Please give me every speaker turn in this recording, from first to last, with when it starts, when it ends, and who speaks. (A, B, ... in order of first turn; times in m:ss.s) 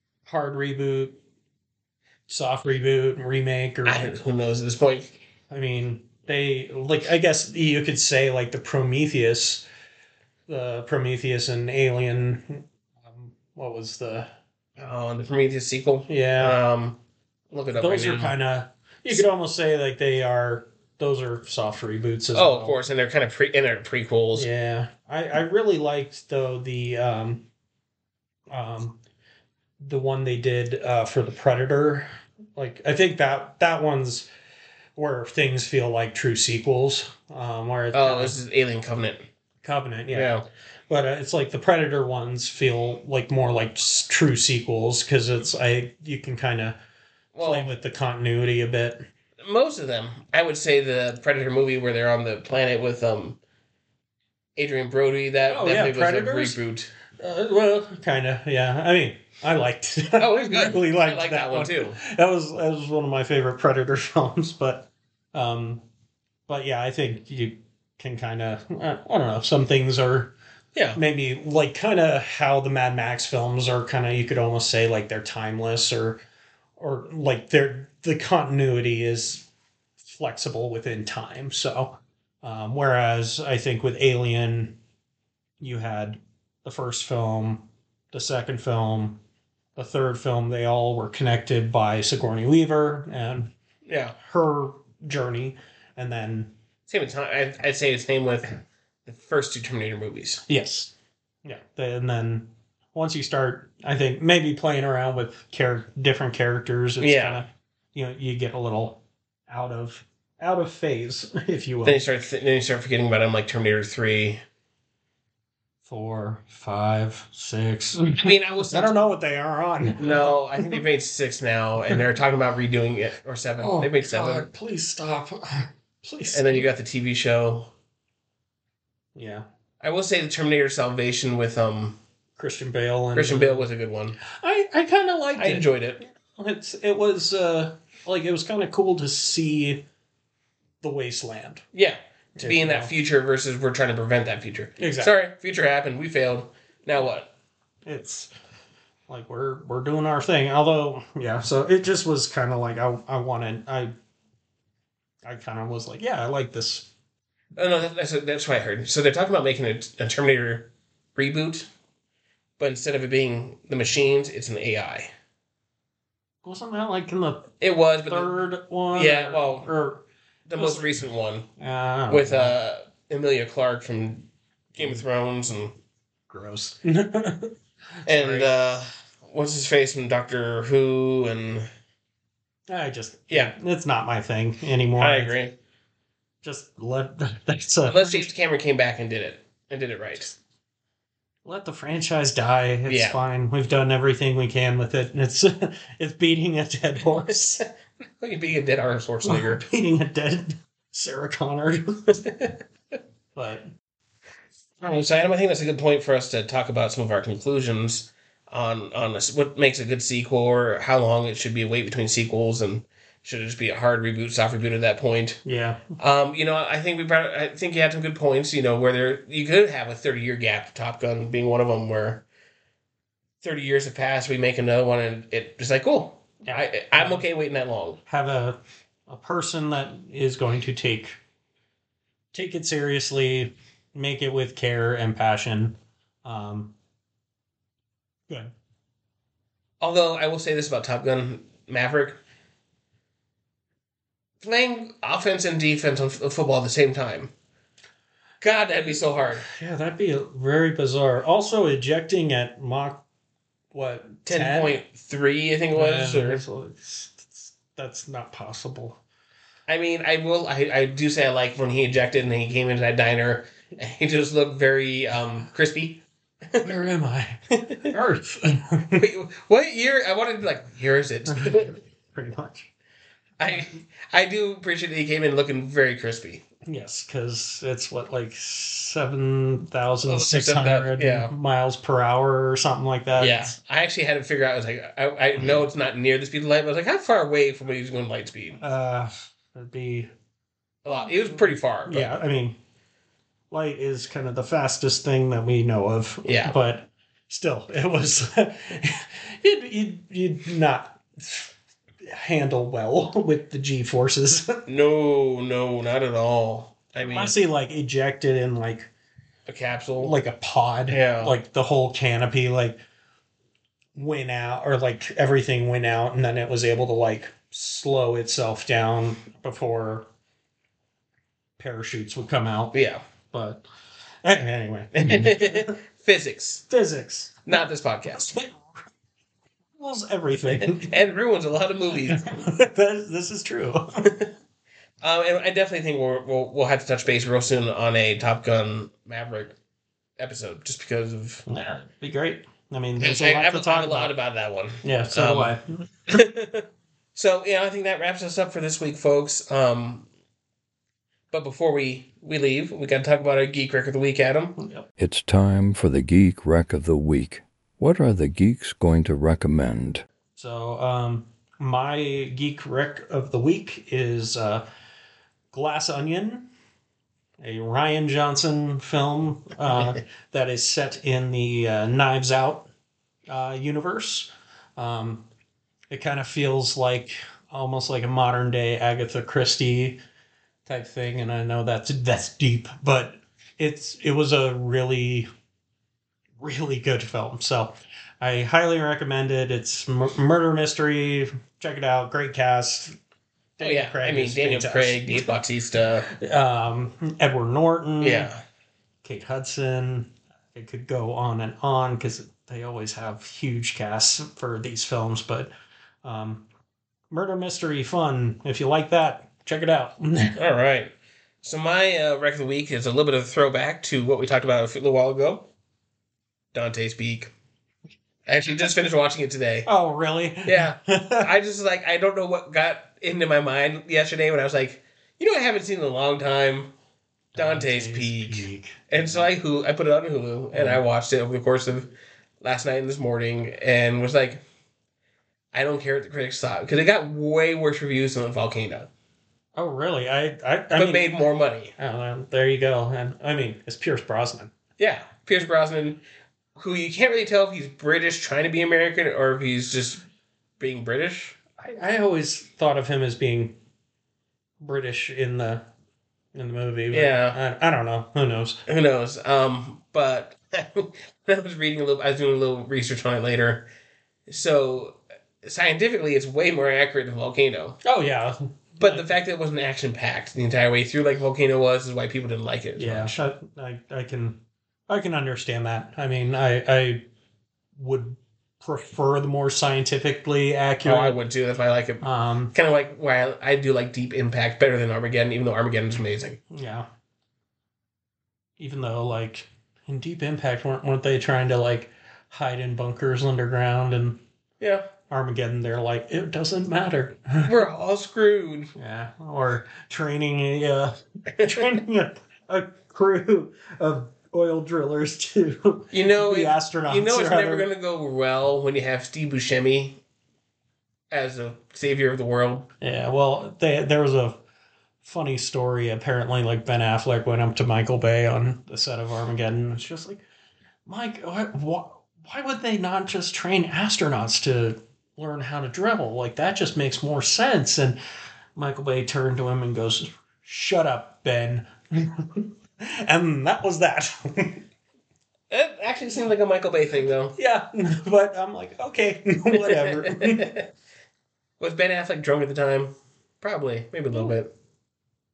0:00.3-0:01.2 A
0:02.3-0:04.1 A
0:03.8-0:05.2 B
0:05.5-0:09.6 A
0:10.5-0:14.3 A
0:14.8-0:17.0 B
0:16.1-0:16.6 A
0:17.5-0:18.3 B
0:17.8-0:22.8 A
0:22.3-0:24.5 B
0:24.4-0:27.4 A
0:28.5-0:29.0 A
0:29.8-0:34.3 A
0:35.0-0:38.4 A
0:37.9-0:39.3 B
0:39.6-0:40.3 A
0:40.1-0:40.4 B
0:40.9-0:46.8 A
0:47.3-0:47.7 B
0:47.4-0:49.0 A
0:49.4-0:53.4 B
0:54.6-0:56.9 B
0:55.5-0:56.6 A
0:57.2-1:05.8 A
1:00.2-1:02.0 B
1:06.5-1:10.3 A
1:11.0-1:16.2 A
1:16.8-1:19.5 A
1:20.0-1:24.8 A
1:25.6-1:29.2 A
1:29.8-1:33.5 A
1:33.9-1:34.2 B
1:34.2-1:36.5 A
1:36.9-1:40.4 B
1:40.5-1:40.9 A
1:41.4-1:52.0 A
1:47.0-1:47.4 B
1:51.8-1:54.4 B
1:55.9-2:00.8 A
1:58.2-1:59.0 B
2:00.0-2:04.5 B
2:03.6-2:06.6 A
2:06.3-2:07.7 B
2:09.2-2:09.5 A
2:09.8-2:12.0 B
2:12.4-2:13.7 A
2:13.2-2:14.2 B
2:14.2-2:19.8 A
2:15.4-2:16.0 B
2:20.8-2:21.6 A
2:21.7-2:27.3 B
2:22.4-2:22.9 A
2:24.8-2:25.1 A
2:27.9-2:28.3 A
2:29.1-2:33.9 A
2:35.2-2:36.9 A
2:37.6-2:41.7 B
2:42.6-2:45.1 B
2:46.4-2:47.5 A
2:47.6-2:48.4 B
2:48.1-2:50.0 A
2:48.9-2:49.7 B
2:50.5-2:51.5 B
2:50.6-2:50.9 A
2:51.6-2:52.5 A
2:52.1-2:55.8 B
2:56.3-2:58.7 A
2:58.1-3:01.7 B
3:02.7-3:05.3 A
3:05.0-3:05.6 B
3:06.4-3:08.3 A
3:07.9-3:10.4 B
3:11.4-3:17.6 A
3:12.9-3:13.2 B
3:18.2-3:19.6 B
3:19.2-3:22.2 A
3:22.2-3:22.6 B
3:23.4-3:23.7 A
3:24.8-3:35.4 B
3:35.4-3:35.9 A
3:36.0-3:42.2 B
3:43.4-3:48.0 B
3:46.5-3:47.2 A
3:48.1-3:51.2 A
3:52.3-3:56.7 A
3:59.8-4:02.2 B
4:04.4-4:07.3 B
4:08.4-4:09.4 B
4:09.4-4:13.0 A
4:13.7-4:14.8 A
4:14.3-4:16.4 B
4:15.7-4:19.0 A
4:19.7-4:26.7 B
4:26.6-4:29.0 A
4:27.6-4:27.8 B
4:29.0-4:31.8 B
4:31.3-4:32.7 A
4:33.4-4:36.4 B
4:36.7-4:43.5 A
4:40.1-4:41.3 B
4:43.2-4:48.6 B
4:48.6-4:50.1 A
4:50.8-4:52.1 B
4:51.9-4:52.6 A
4:53.5-5:01.5 A
4:56.2-4:56.5 B
5:02.0-5:04.6 A
5:04.7-5:07.3 B
5:07.1-5:08.9 A
5:09.5-5:10.2 B
5:10.0-5:12.8 A
5:10.9-5:11.4 B
5:14.0-5:20.1 A
5:21.6-5:22.7 A
5:22.7-5:23.0 B
5:23.3-5:23.6 A
5:24.2-5:25.7 A
5:25.0-5:26.6 B
5:26.7-5:27.4 A
5:27.5-5:28.3 B
5:28.2-5:28.6 A
5:29.8-5:30.9 A
5:30.6-5:32.3 B
5:32.1-5:34.1 A
5:35.0-5:39.6 B
5:40.2-5:41.4 B
5:41.5-5:44.1 A
5:43.0-5:45.6 B
5:44.8-5:45.6 A
5:46.1-5:50.1 B
5:51.3-5:54.6 B
5:54.6-5:54.9 A
5:55.0-6:00.0 C
6:00.4-6:04.7 A
6:05.5-6:06.5 A
6:07.4-6:12.7 A
6:13.3-6:15.2 A
6:15.9-6:20.0 A
6:20.7-6:25.3 A
6:26.4-6:33.0 A
6:33.6-6:35.2 A
6:33.6-6:36.1 B
6:36.1-6:38.3 A
6:38.0-6:38.4 B
6:39.0-6:45.5 A
6:46.0-6:46.4 A
6:47.1-6:50.4 A
6:50.4-6:50.9 B
6:51.4-6:55.5 B
6:56.5-6:57.3 B
6:58.3-6:59.7 B
6:59.7-7:01.3 A
7:00.4-7:06.7 B
7:07.4-7:08.9 A
7:07.4-7:14.4 B
7:10.5-7:10.8 A
7:15.5-7:18.9 B
7:19.6-7:21.2 A
7:20.8-7:21.7 B
7:21.8-7:24.5 A
7:24.8-7:26.0 B
7:26.6-7:30.0 B
7:30.6-7:31.4 B
7:31.6-7:33.6 A
7:34.6-7:35.6 A
7:36.4-7:38.6 A
7:36.9-7:37.4 B
7:38.7-7:43.7 B
7:44.3-7:47.8 B
7:47.8-7:49.0 A
7:48.8-7:53.2 B
7:52.8-7:57.1 A
7:57.8-8:01.2 A
8:00.8-8:06.4 B
8:02.0-8:02.5 A
8:06.5-8:06.9 A
8:08.6-8:14.2 A
8:14.6-8:14.9 B
8:15.1-8:17.5 A
8:17.4-8:18.7 B
8:18.8-8:27.7 A
8:21.4-8:21.7 B
8:25.9-8:30.0 B
8:31.1-8:32.7 B
8:32.8-8:34.4 A
8:35.0-8:40.2 A
8:40.9-8:48.0 A
8:48.6-8:54.6 A
8:55.5-8:57.4 B
8:57.4-9:00.5 A
8:59.5-9:00.7 B
9:01.6-9:04.5 B